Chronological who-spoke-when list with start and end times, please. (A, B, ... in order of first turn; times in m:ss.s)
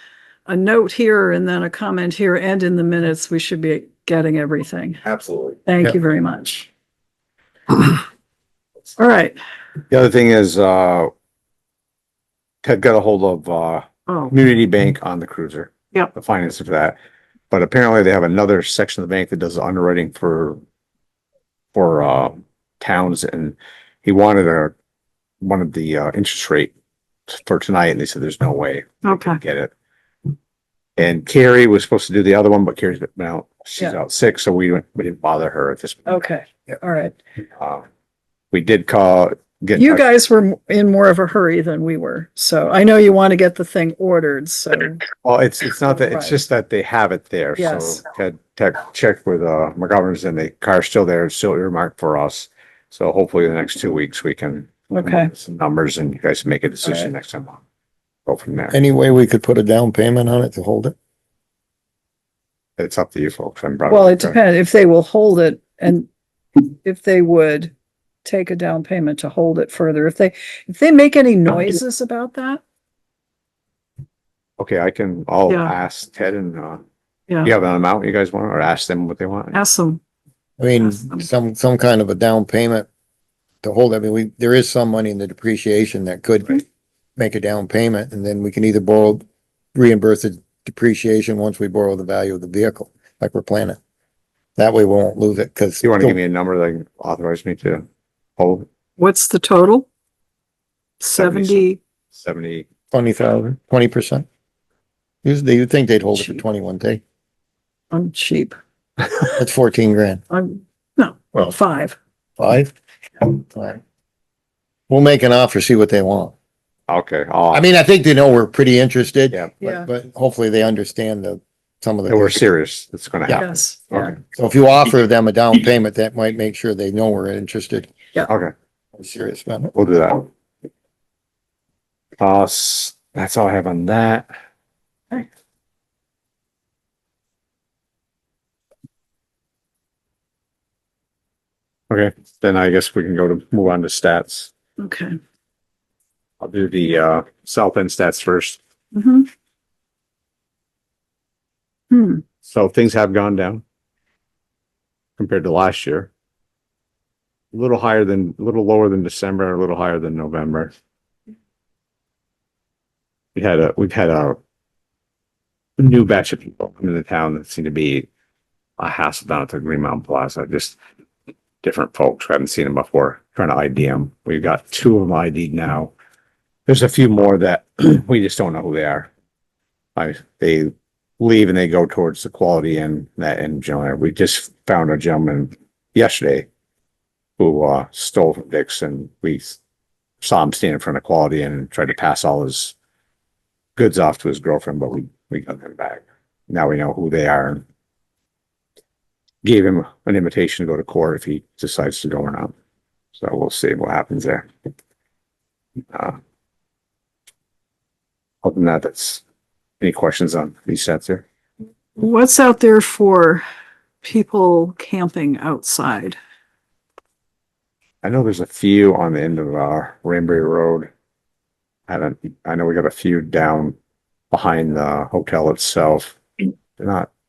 0:00.4-0:05.0 A
0:05.0-0:05.6 B
0:05.6-0:06.7 A
0:07.7-0:08.0 A
0:09.0-0:09.4 A
0:09.9-0:11.1 B
0:12.6-0:17.0 B
0:14.1-0:14.3 A
0:17.5-0:20.6 B
0:21.7-0:24.7 B
0:25.4-0:26.7 B
0:27.3-0:29.7 B
0:29.0-0:29.4 A
0:31.0-0:36.2 B
0:36.0-0:37.2 A
0:37.6-0:37.8 B
0:38.5-0:40.0 B
0:39.8-0:45.0 A
0:45.2-0:57.6 B
0:45.9-0:46.3 A
0:47.6-0:48.0 A
0:54.9-0:55.3 A
0:58.2-0:58.8 B
0:58.7-1:00.9 C
1:02.8-1:04.4 B
1:03.9-1:06.1 A
1:06.6-1:07.7 A
1:08.2-1:12.6 A
1:14.6-1:16.8 B
1:15.5-1:15.7 A
1:17.4-1:19.6 B
1:19.5-1:20.0 A
1:20.6-1:22.9 C
1:20.8-1:21.2 A
1:23.6-1:26.6 C
1:27.2-1:29.2 C
1:29.7-1:33.8 C
1:34.6-1:36.2 C
1:35.8-1:37.9 B
1:38.4-1:38.6 B
1:39.0-1:39.9 A
1:41.0-1:41.8 A
1:41.2-1:42.6 B
1:42.9-1:44.2 C
1:45.2-1:47.0 C
1:47.9-1:48.6 A
1:49.3-1:50.2 C
1:50.3-1:52.0 A
1:52.4-1:53.8 C
1:54.9-1:56.3 C
1:56.9-1:57.7 B
1:57.5-2:02.4 C
1:59.6-1:59.9 A
2:02.1-2:04.2 B
2:03.3-2:04.1 A
2:04.0-2:07.9 C
2:08.3-2:08.5 B
2:09.0-2:09.7 C
2:09.7-2:10.3 B
2:12.2-2:14.3 B
2:21.9-2:24.5 B
2:24.8-2:25.2 A
2:26.4-2:28.6 B
2:28.9-2:29.3 A
2:31.9-2:32.2 A
2:32.4-2:33.6 B
2:35.2-2:36.1 B
2:37.5-2:40.7 B
2:43.4-2:44.4 B
2:45.8-2:48.1 B
2:48.8-2:50.8 B
2:51.6-2:55.9 B
2:56.7-2:59.1 B
3:00.0-3:06.5 B
3:07.4-3:09.6 B
3:10.2-3:12.7 B
3:13.8-3:17.6 B
3:19.4-3:22.5 B
3:23.2-3:24.5 B
3:25.9-3:26.2 B
3:28.4-3:29.2 B
3:29.8-3:31.2 B
3:32.0-3:33.4 A
3:34.0-3:36.2 A
3:38.0-3:40.9 B
3:41.9-3:43.8 B
3:44.3-3:46.2 B
3:46.8-3:47.1 B